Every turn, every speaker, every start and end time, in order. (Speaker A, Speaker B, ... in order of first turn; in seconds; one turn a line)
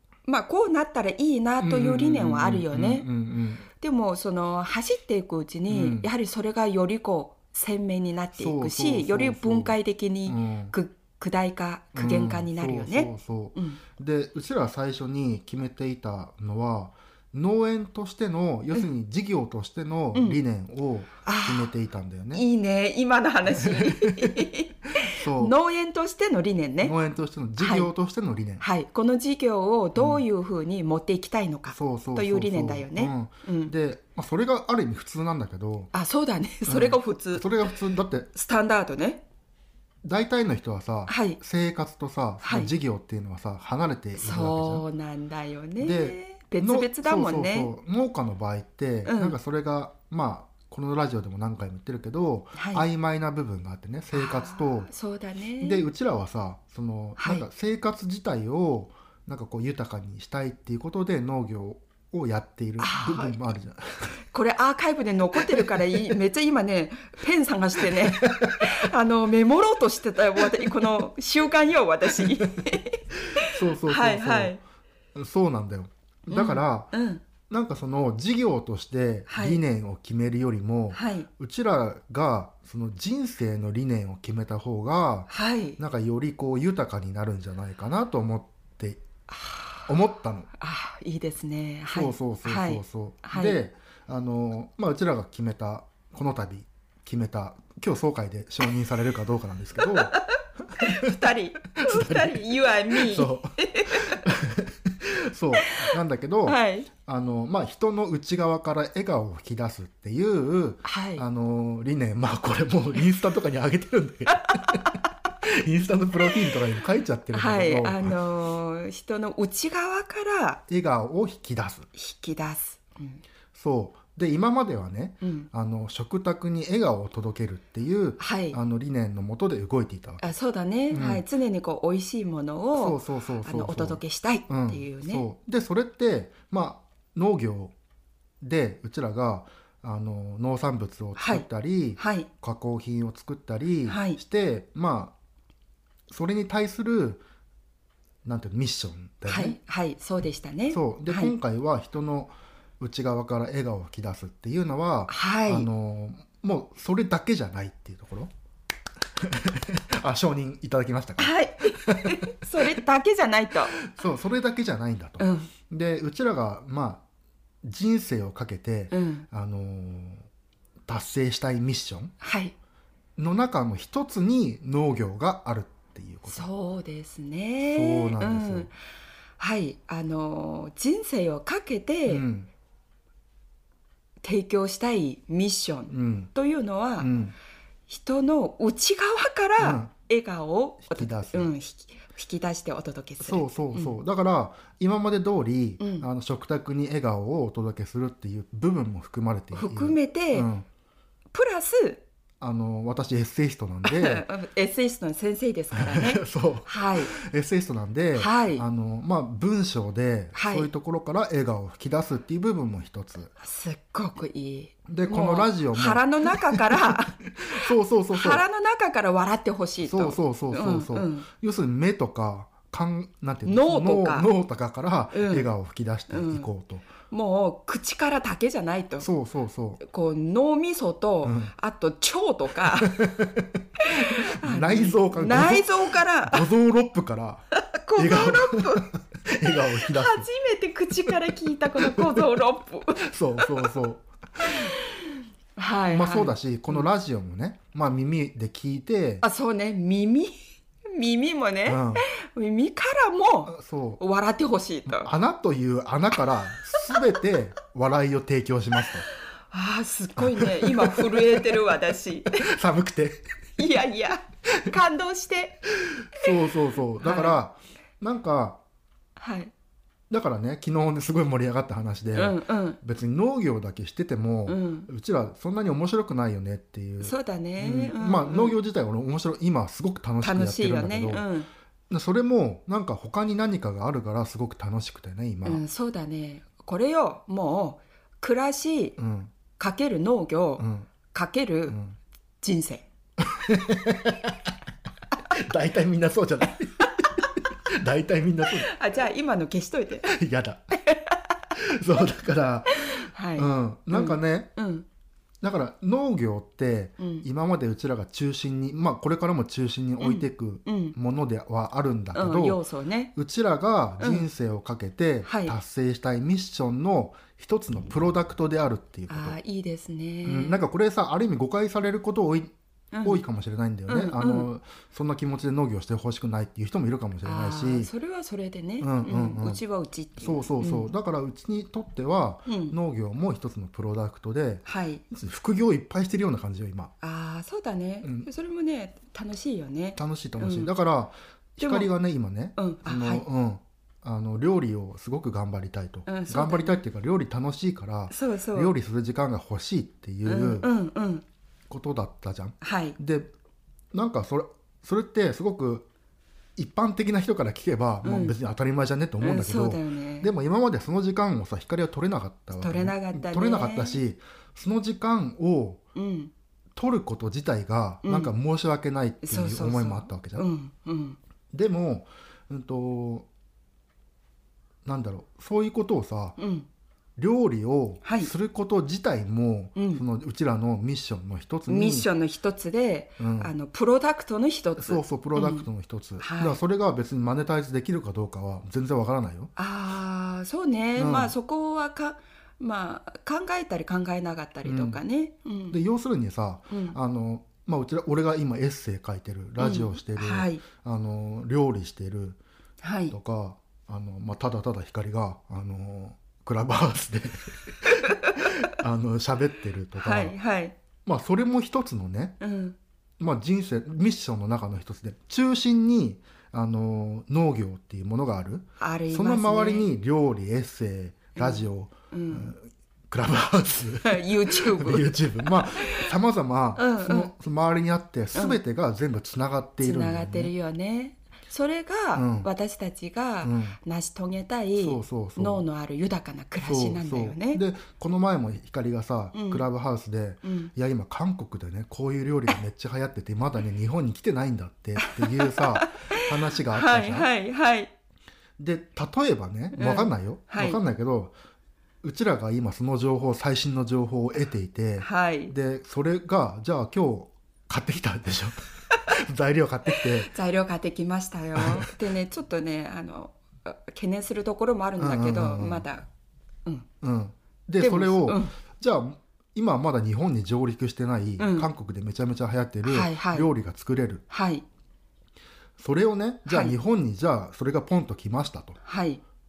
Speaker A: 0.2-3.1
Speaker B: 1.6-3.7
Speaker A: 3.7-13.8
Speaker B: 5.7-6.1
Speaker B: 8.3-10.7
Speaker B: 11.9-22.4
Speaker A: 21.2-21.7
Speaker A: 22.3-26.9
Speaker B: 23.5-25.6
Speaker B: 26.8-28.6
Speaker A: 27.6-27.9
Speaker A: 28.6-33.7
Speaker B: 29.9-30.2
Speaker B: 31.7-35.9
Speaker A: 35.9-37.5
Speaker B: 36.6-38.3
Speaker A: 38.3-39.2
Speaker B: 40.0-44.8
Speaker A: 41.1-41.4
Speaker A: 42.4-42.7
Speaker A: 44.1-47.7
Speaker B: 45.8-54.9
Speaker A: 49.0-49.4
Speaker A: 52.5-52.8
Speaker A: 54.1-55.9
Speaker B: 55.6-64.2
Speaker A: 57.2-57.5
Speaker A: 62.8-63.4
Speaker A: 64.3-74.6
Speaker B: 65.5-65.7
Speaker B: 68.1-68.8
Speaker B: 70.6-70.8
Speaker B: 73.2-74.6
Speaker B: 75.1-76.9
Speaker A: 76.3-77.2
Speaker B: 77.5-89.0
Speaker A: 79.3-79.6
Speaker A: 80.9-81.3
Speaker A: 85.3-85.8
Speaker A: 89.3-89.8
Speaker B: 89.8-90.5
Speaker A: 90.6-93.6
Speaker B: 91.9-118.2
Speaker A: 99.8-104.2
Speaker A: 105.6-106.9
Speaker A: 110.8-111.2
Speaker A: 117.3-120.6
Speaker B: 120.7-121.9
Speaker A: 121.9-123.2
Speaker B: 123.5-130.2
Speaker A: 125.2-125.5
Speaker A: 128.2-128.6
Speaker A: 130.2-135.2
Speaker B: 130.9-131.2
Speaker B: 132.7-137.7
Speaker B: 138.4-145.1
Speaker A: 141.2-142.3
Speaker A: 143.9-144.2
Speaker B: 146.1-147.2
Speaker B: 148.2-149.6
Speaker A: 149.3-151.3
Speaker B: 150.7-158.3
Speaker A: 155.1-155.7
Speaker B: 159.2-162.8
Speaker A: 161.2-163.8
Speaker B: 163.8-167.0
Speaker A: 165.2-165.5
Speaker B: 167.6-170.3
Speaker A: 168.9-169.3
Speaker B: 170.9-172.1
Speaker A: 172.2-172.5
Speaker B: 173.2-176.5
Speaker A: 176.3-178.7
Speaker B: 177.6-178.7
Speaker A: 179.4-182.2
Speaker B: 182.1-182.5
Speaker A: 184.2-187.1
Speaker B: 185.9-186.3
Speaker B: 187.0-187.3
Speaker A: 187.9-193.9
Speaker B: 189.6-189.9
Speaker B: 190.8-191.5
Speaker B: 193.2-200.7
Speaker A: 195.8-196.1
Speaker A: 199.5-200.5
Speaker A: 201.3-202.0
Speaker B: 202.4-204.2
Speaker A: 203.8-207.1
Speaker B: 205.7-213.3
Speaker A: 208.2-208.6
Speaker A: 210.3-210.7
Speaker A: 213.4-221.3
Speaker B: 214.9-218.4
Speaker B: 219.8-226.9
Speaker A: 223.4-224.3
Speaker A: 225.1-225.5
Speaker A: 226.1-226.5
Speaker A: 227.1-229.1
Speaker B: 229.0-229.8
Speaker A: 229.8-233.1
Speaker B: 231.2-231.5
Speaker B: 232.8-240.3
Speaker A: 233.8-236.5
Speaker A: 237.7-238.9
Speaker A: 239.5-243.8
Speaker B: 241.8-242.2
Speaker B: 243.0-244.7
Speaker A: 244.4-246.9
Speaker B: 245.9-249.2
Speaker A: 249.2-255.1
Speaker B: 251.7-252.1
Speaker B: 253.5-254.0
Speaker B: 254.9-259.1
Speaker A: 259.5-262.5
Speaker B: 260.2-261.7
Speaker B: 262.3-263.3
Speaker A: 263.6-265.6
Speaker B: 265.8-268.6
Speaker A: 267.0-267.4
Speaker A: 269.2-269.5
Speaker B: 270.1-281.3
Speaker A: 272.1-272.8
Speaker A: 274.5-274.9
Speaker A: 277.0-278.6
Speaker A: 280.2-281.5
Speaker B: 281.9-285.6
Speaker A: 285.4-289.0
Speaker B: 289.0-289.3
Speaker A: 289.6-291.8
Speaker B: 290.6-290.9
Speaker B: 291.7-292.0
Speaker A: 292.4-292.8
Speaker B: 293.2-294.5
Speaker B: 295.2-298.7
Speaker A: 298.4-300.1
Speaker B: 300.1-300.8
Speaker A: 300.8-301.2
Speaker B: 301.5-304.5
Speaker A: 302.7-304.9
Speaker B: 305.4-312.6
Speaker A: 307.0-307.2
Speaker A: 310.0-310.9
Speaker A: 312.1-313.1
Speaker B: 313.1-319.4
Speaker A: 314.0-314.3
Speaker A: 315.2-315.5
Speaker A: 319.1-320.6
Speaker B: 320.2-327.9
Speaker A: 322.9-323.2
Speaker A: 323.9-324.5
Speaker A: 327.2-330.9
Speaker B: 328.8-329.6
Speaker B: 330.2-336.9
Speaker A: 332.5-332.8
Speaker A: 334.6-335.0
Speaker A: 337.0-340.7
Speaker B: 338.0-338.3
Speaker B: 339.9-350.7
Speaker A: 341.6-341.9
Speaker A: 342.6-343.2
Speaker A: 346.1-346.8
Speaker A: 348.1-348.7
Speaker A: 350.2-351.2
Speaker B: 351.7-353.3
Speaker A: 352.6-353.0
Speaker B: 353.9-355.9
Speaker B: 356.6-365.8
Speaker A: 358.0-358.4
Speaker A: 359.2-360.3
Speaker A: 362.6-364.0
Speaker A: 365.9-366.3
Speaker B: 366.7-370.5
Speaker A: 368.0-368.3
Speaker A: 369.2-371.2
Speaker B: 371.5-373.3
Speaker B: 374.8-376.4
Speaker A: 376.4-376.7
Speaker B: 377.2-382.1
Speaker A: 378.0-378.3
Speaker A: 379.8-380.0
Speaker A: 381.7-385.7
Speaker B: 383.2-383.5
Speaker B: 384.8-389.5
Speaker A: 386.2-386.6
Speaker A: 389.6-395.8
Speaker B: 391.0-391.3
Speaker B: 394.6-395.0
Speaker B: 395.7-402.4
Speaker A: 396.7-397.0
Speaker A: 399.6-400.6
Speaker A: 402.8-403.1
Speaker B: 403.1-410.4
Speaker A: 409.9-410.7
Speaker B: 411.0-412.4
Speaker A: 412.4-412.8
Speaker B: 413.2-430.5
Speaker A: 418.8-419.9
Speaker A: 421.4-422.5
Speaker A: 424.0-426.1
Speaker A: 426.8-427.3
Speaker A: 429.8-437.6
Speaker B: 432.1-432.5
Speaker B: 433.4-433.8
Speaker B: 434.8-435.6
Speaker B: 436.6-447.3
Speaker A: 439.3-439.6
Speaker A: 440.4-440.7
Speaker A: 445.0-447.9
Speaker B: 448.6-451.3
Speaker A: 449.7-450.8
Speaker B: 452.0-460.3
Speaker A: 455.0-455.5
Speaker A: 459.9-466.1
Speaker B: 461.5-461.9
Speaker B: 465.0-465.8
Speaker B: 467.0-474.2
Speaker A: 467.8-468.5
Speaker A: 471.4-471.7
Speaker A: 472.8-473.5
Speaker A: 474.3-474.6
Speaker B: 475.8-478.8
Speaker A: 476.5-476.8
Speaker A: 478.8-479.2